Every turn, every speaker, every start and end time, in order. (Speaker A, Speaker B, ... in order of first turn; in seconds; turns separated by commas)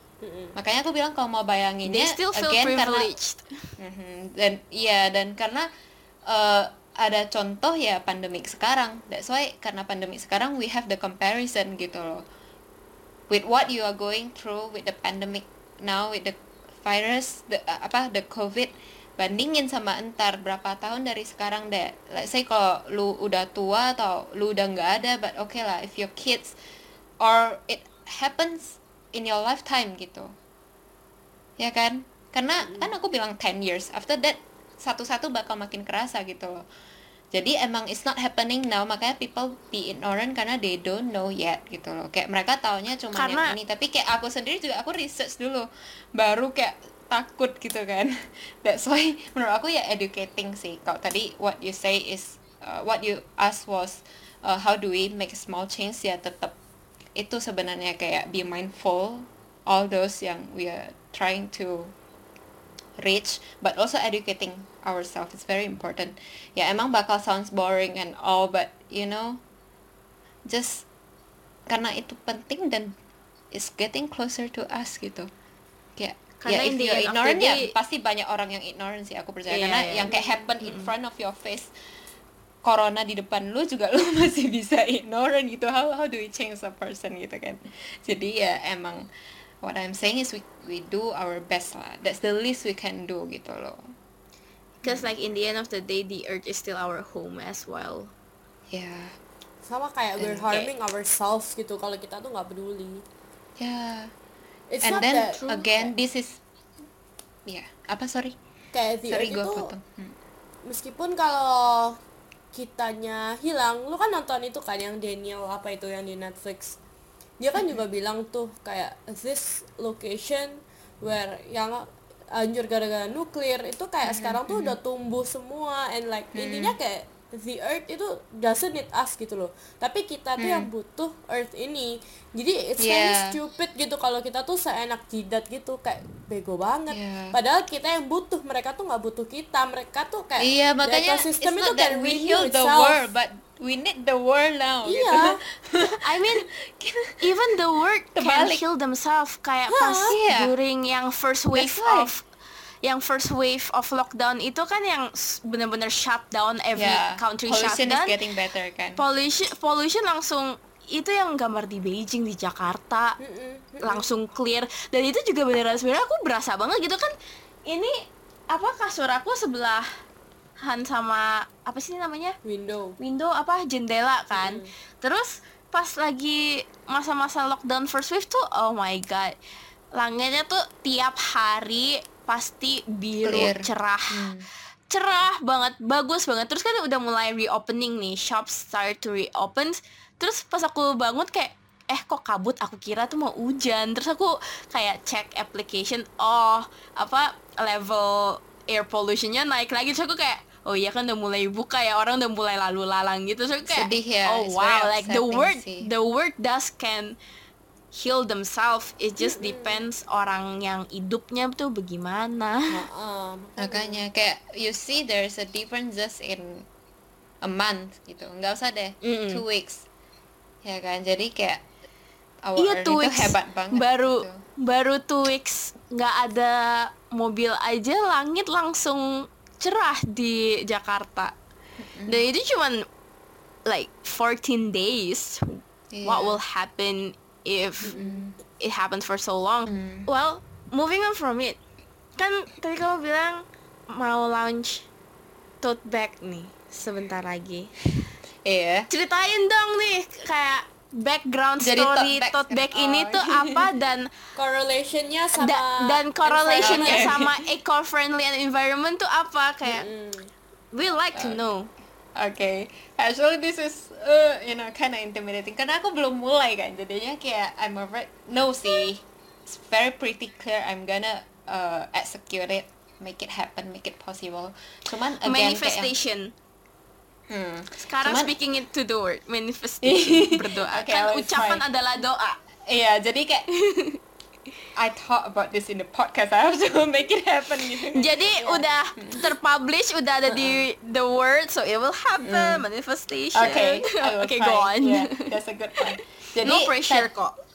Speaker A: 0.2-0.5, Speaker B: 0.6-3.1, Speaker C: 1.9-3.7, Speaker B: 3.8-5.7, Speaker B: 6.3-12.2, Speaker B: 13.3-26.6, Speaker B: 27.2-30.3, Speaker B: 31.6-36.6, Speaker B: 37.3-48.1, Speaker C: 43.1-43.6, Speaker B: 48.6-56.5, Speaker B: 57.2-61.9, Speaker B: 63.0-69.4, Speaker B: 70.5-70.9, Speaker B: 71.7-73.0, Speaker B: 73.5-75.3, Speaker B: 76.0-81.7, Speaker C: 76.4-77.7, Speaker C: 79.5-80.1, Speaker A: 80.1-80.3, Speaker C: 80.6-80.9, Speaker B: 82.7-89.1, Speaker B: 89.6-93.8, Speaker C: 94.8-98.1, Speaker B: 98.7-99.2, Speaker A: 99.7-103.0, Speaker B: 100.2-100.7, Speaker B: 103.6-104.1, Speaker A: 104.7-105.9, Speaker B: 104.8-106.4, Speaker B: 107.5-108.4, Speaker A: 108.7-109.7, Speaker B: 109.1-110.2, Speaker A: 110.7-112.0, Speaker A: 112.5-116.8, Speaker A: 117.4-143.1, Speaker B: 117.6-117.8, Speaker B: 124.0-124.8, Speaker B: 126.3-126.8, Speaker B: 130.4-130.7, Speaker B: 132.8-133.3, Speaker B: 136.9-137.4, Speaker B: 140.4-147.3, Speaker A: 144.8-145.4, Speaker C: 146.0-146.5, Speaker C: 147.2-152.2, Speaker B: 148.1-148.6, Speaker A: 149.7-150.1, Speaker B: 150.1-150.5, Speaker B: 151.5-152.1, Speaker C: 152.8-158.1, Speaker B: 156.8-159.0, Speaker C: 159.0-163.2, Speaker A: 163.2-164.1, Speaker C: 163.8-167.1, Speaker C: 167.7-168.0, Speaker C: 168.5-169.9, Speaker C: 170.6-172.4, Speaker A: 172.4-173.0, Speaker C: 173.0-179.4, Speaker A: 174.3-174.7, Speaker C: 179.9-184.3, Speaker B: 183.2-184.5, Speaker C: 184.9-207.2, Speaker B: 203.6-205.9, Speaker C: 207.9-212.8, Speaker A: 209.2-209.8, Speaker A: 212.7-214.0, Speaker B: 213.6-216.7, Speaker B: 217.4-219.8, Speaker C: 219.0-219.4, Speaker B: 220.6-221.6, Speaker B: 222.4-224.4, Speaker C: 222.6-231.3, Speaker B: 231.8-232.3, Speaker C: 232.1-232.8, Speaker C: 233.7-238.0, Speaker B: 235.9-236.4, Speaker B: 237.9-238.4, Speaker A: 237.9-238.2, Speaker C: 238.6-241.6, Speaker B: 239.7-240.1, Speaker C: 242.2-244.9, Speaker C: 245.6-247.7, Speaker B: 248.4-248.9, Speaker C: 248.9-254.1, Speaker B: 251.6-253.6, Speaker A: 254.4-257.2, Speaker C: 255.4-259.9, Speaker B: 256.6-257.3, Speaker A: 259.6-260.3, Speaker C: 260.7-261.7, Speaker B: 261.1-261.4, Speaker B: 262.2-275.9, Speaker C: 275.2-276.3, Speaker B: 277.3-278.3, Speaker C: 277.8-282.4, Speaker B: 279.8-281.6, Speaker B: 282.7-283.5, Speaker C: 283.5-284.0, Speaker B: 284.8-289.2, Speaker C: 287.9-295.2, Speaker B: 292.2-292.6, Speaker B: 293.4-297.1, Speaker C: 296.4-297.3